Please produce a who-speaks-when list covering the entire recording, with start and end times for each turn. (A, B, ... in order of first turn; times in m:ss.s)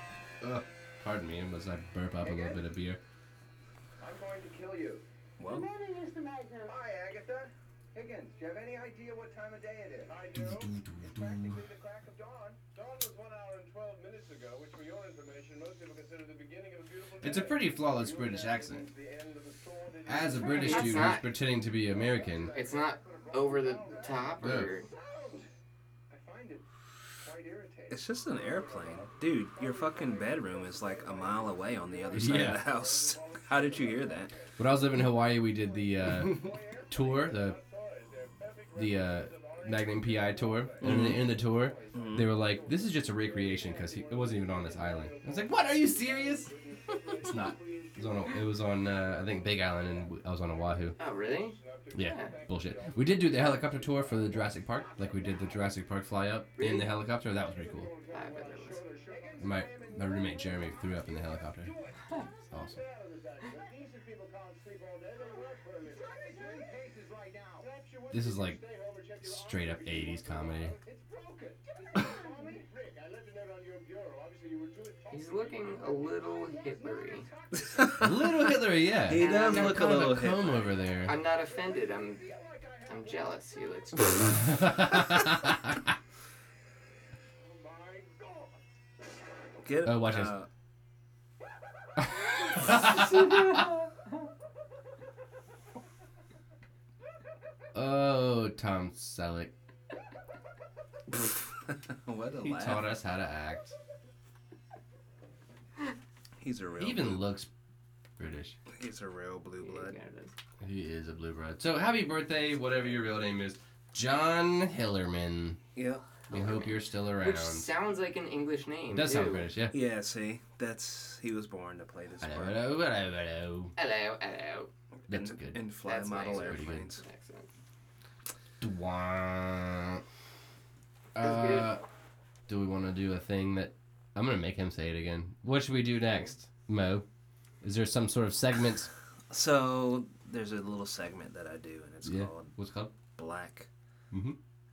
0:00.4-0:03.0 A
0:02.2-0:02.6 B
0:04.0-0:05.0 C
0:04.0-0:12.6 B
0:05.4-0:05.7 D
0:10.1-0:10.6 C
0:10.3-0:11.6 A
0:12.8-0:21.2 C
0:17.2-0:18.9 A
0:20.1-0:22.5 A
0:20.4-0:21.3 E
0:21.9-0:24.2 B
0:21.9-0:25.4 C
0:22.5-0:24.9 E
0:24.4-0:24.7 A
0:26.1-0:26.6 C
0:27.2-0:34.9 C
0:27.9-0:34.3 D
0:32.1-0:32.6 A
0:34.6-0:37.6 A
0:36.4-0:48.4 C
0:38.8-0:46.5 A
0:40.8-0:41.4 D
0:41.9-0:42.4 D
0:47.2-0:51.0 A
0:49.1-0:50.1 C
0:51.0-0:52.4 E
0:51.6-0:55.3 C
0:51.9-0:57.9 A
0:56.6-0:56.9 E
0:57.6-0:59.9 C
0:57.7-1:00.5 B
0:58.1-0:58.9 E
0:59.4-1:01.7 A
1:02.5-1:02.8 A
1:02.7-1:13.0 B
1:02.9-1:06.7 C
1:07.8-1:10.5 C
1:08.1-1:08.6 A
1:09.2-1:10.8 A
1:11.8-1:17.4 C
1:15.1-1:17.3 E
1:15.7-1:17.4 B
1:17.6-1:20.7 D
1:18.0-1:21.2 A
1:19.1-1:20.0 E
1:21.0-1:22.2 E
1:22.2-1:23.0 B
1:22.8-1:24.7 E
1:24.4-1:25.7 A
1:27.5-1:28.5 C
1:29.6-1:30.5 D
1:29.8-1:30.3 A
1:32.0-1:33.6 A
1:32.5-1:33.9 E
1:37.7-1:39.5 A
1:41.7-1:42.9 D
1:42.4-1:43.8 A
1:46.4-1:47.2 D
1:46.8-1:47.5 A
1:48.2-1:48.6 A
1:48.7-1:50.0 D
1:49.6-1:50.3 E
1:50.6-1:55.6 A
1:55.8-1:56.1 D
1:56.3-1:59.5 E
1:56.3-1:57.7 A
1:58.9-1:59.8 A
1:59.7-2:02.6 D
2:02.2-2:03.7 A
2:03.8-2:04.7 E
2:05.1-2:07.0 D
2:05.1-2:05.7 A
2:05.8-2:07.5 E
2:06.3-2:06.9 A
2:08.6-2:10.0 A
2:11.2-2:11.8 A
2:11.2-2:11.8 E
2:12.5-2:17.0 A
2:17.6-2:18.9 A
2:19.3-2:22.6 D
2:22.0-2:22.9 A
2:23.1-2:23.7 D
2:24.1-2:24.4 A